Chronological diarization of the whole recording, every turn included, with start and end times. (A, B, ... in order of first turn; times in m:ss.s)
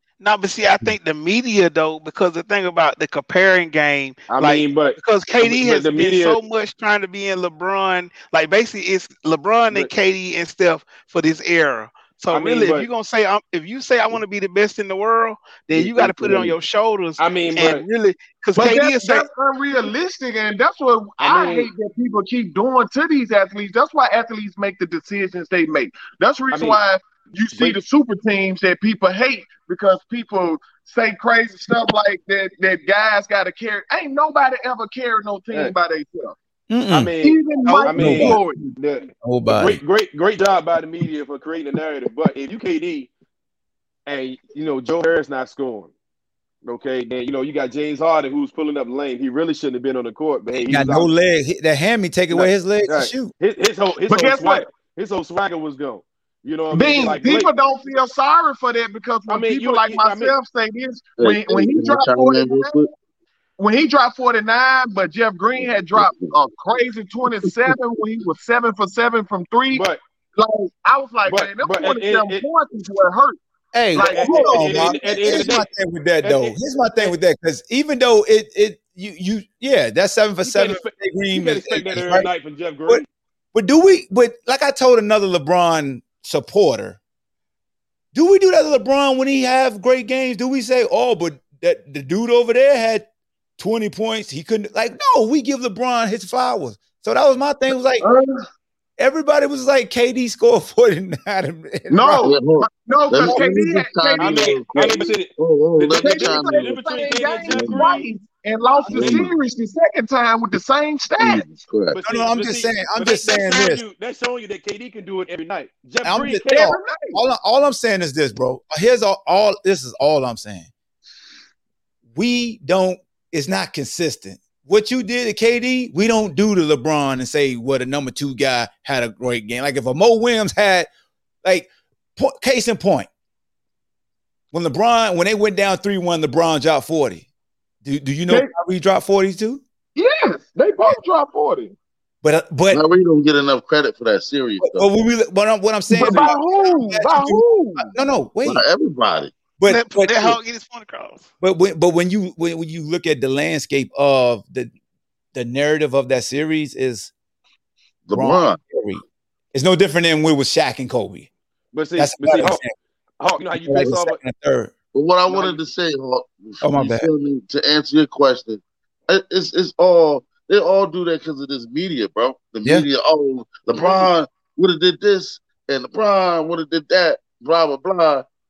0:00.2-0:19.2 A
0:04.3-0:06.4 B
0:12.3-0:12.9 B
0:15.7-0:16.5 B
0:17.2-0:17.8 B
0:18.6-0:36.4 C
0:21.2-0:21.7 B
0:26.5-0:26.8 B
0:27.5-0:27.8 B
0:36.7-0:37.1 D
0:36.9-0:43.1 B
0:37.2-0:38.6 C
0:37.6-0:37.9 A
0:38.0-0:38.4 D
0:39.2-0:39.8 D
0:44.1-0:45.9 B
0:46.6-0:51.1 B
0:50.5-0:53.3 D
0:52.3-0:57.5 B
0:54.1-0:54.6 C
0:56.7-1:02.8 C
0:59.3-1:00.3 B
1:01.2-1:02.9 E
1:03.6-1:09.8 C
1:05.6-1:06.3 E
1:07.4-1:07.7 E
1:09.7-1:10.0 B
1:10.4-1:13.4 C
1:11.2-1:12.4 B
1:13.7-1:22.3 D
1:13.9-1:15.0 C
1:14.0-1:15.7 B
1:16.2-1:17.1 B
1:20.4-1:23.1 B
1:23.5-1:27.0 D
1:28.1-1:38.1 D
1:38.0-1:38.4 C
1:39.0-1:42.3 D
1:41.9-1:44.6 C
1:42.2-1:46.8 E
1:44.2-1:48.1 B
1:46.0-1:51.4 C
1:47.5-1:48.0 E
1:48.9-1:49.3 E
1:48.9-1:49.3 B
1:51.2-1:52.0 E
1:51.9-1:56.7 B
1:52.0-1:53.8 D
1:56.0-2:00.7 D
1:56.5-1:57.2 C
2:02.1-2:10.9 D
2:11.4-2:13.1 D
2:14.5-2:17.2 D
2:17.8-2:19.6 D
2:20.0-2:21.7 C
2:22.2-2:22.8 D
2:22.7-2:24.9 E
2:24.6-2:28.6 D
2:25.9-2:27.9 C
2:28.4-2:29.4 E
2:29.6-2:30.4 D
2:29.7-2:31.3 A
2:31.4-2:34.7 D
2:35.3-2:37.1 D
2:38.1-2:38.6 E
2:38.1-2:41.3 D
2:41.7-2:42.6 B
2:42.0-2:42.7 D
2:43.2-2:44.2 B
2:43.5-2:44.7 D
2:44.9-2:58.2 E
2:45.2-2:45.6 B
2:46.6-2:47.1 D
2:53.8-2:54.1 B